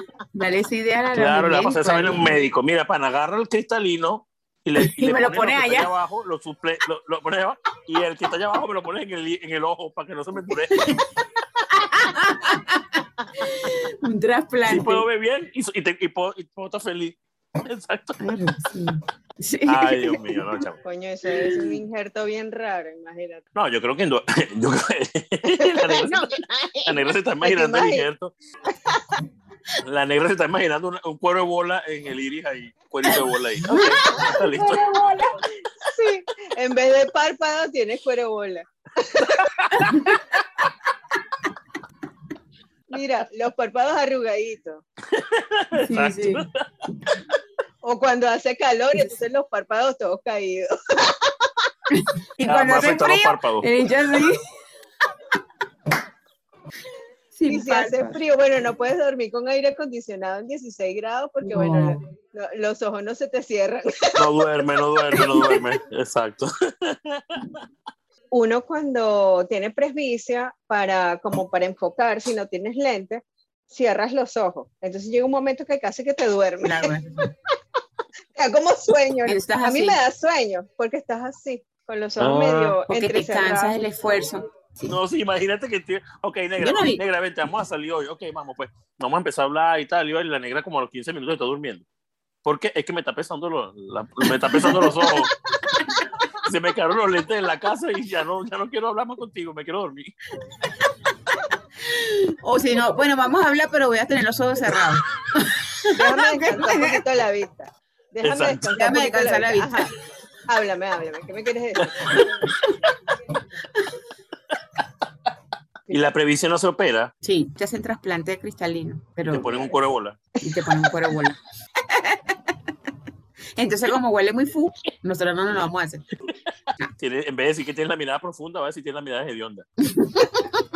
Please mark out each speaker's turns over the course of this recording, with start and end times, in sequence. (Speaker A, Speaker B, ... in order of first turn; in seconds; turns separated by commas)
Speaker A: 0.3-2.4, Speaker B: 1.1-11.0, Speaker A: 4.8-5.9, Speaker A: 10.7-11.0, Speaker A: 11.6-15.0, Speaker B: 14.7-18.2, Speaker A: 18.2-20.6, Speaker B: 19.6-20.8, Speaker C: 20.8-23.4, Speaker B: 23.5-28.3, Speaker C: 25.6-28.1, Speaker C: 28.7-29.2, Speaker B: 29.8-34.9, Speaker A: 33.1-35.4, Speaker C: 35.8-39.5, Speaker B: 39.2-40.1, Speaker A: 39.8-40.2, Speaker C: 42.9-44.8, Speaker B: 45.1-46.6, Speaker A: 45.8-46.4, Speaker C: 47.8-51.7, Speaker A: 51.9-54.4, Speaker B: 52.4-53.7, Speaker A: 57.3-58.2, Speaker C: 57.5-64.2, Speaker A: 61.4-62.0, Speaker B: 64.2-67.6, Speaker A: 65.2-65.6, Speaker C: 68.3-76.9, Speaker A: 76.6-77.3, Speaker C: 78.3-83.7, Speaker A: 79.2-80.0, Speaker B: 82.2-82.8, Speaker A: 82.9-84.9, Speaker B: 84.9-91.8, Speaker A: 86.6-87.0, Speaker B: 92.4-95.3, Speaker A: 94.3-96.0, Speaker B: 96.4-100.1, Speaker A: 101.8-107.0, Speaker C: 105.9-109.9, Speaker B: 108.2-108.7, Speaker A: 108.7-109.9, Speaker C: 110.5-112.4, Speaker B: 111.8-112.7, Speaker C: 115.9-116.1, Speaker B: 115.9-117.1, Speaker A: 117.2-119.7, Speaker B: 119.3-120.2, Speaker A: 120.4-122.5, Speaker C: 120.5-120.9, Speaker A: 123.5-126.0, Speaker B: 127.0-129.7, Speaker A: 129.8-130.6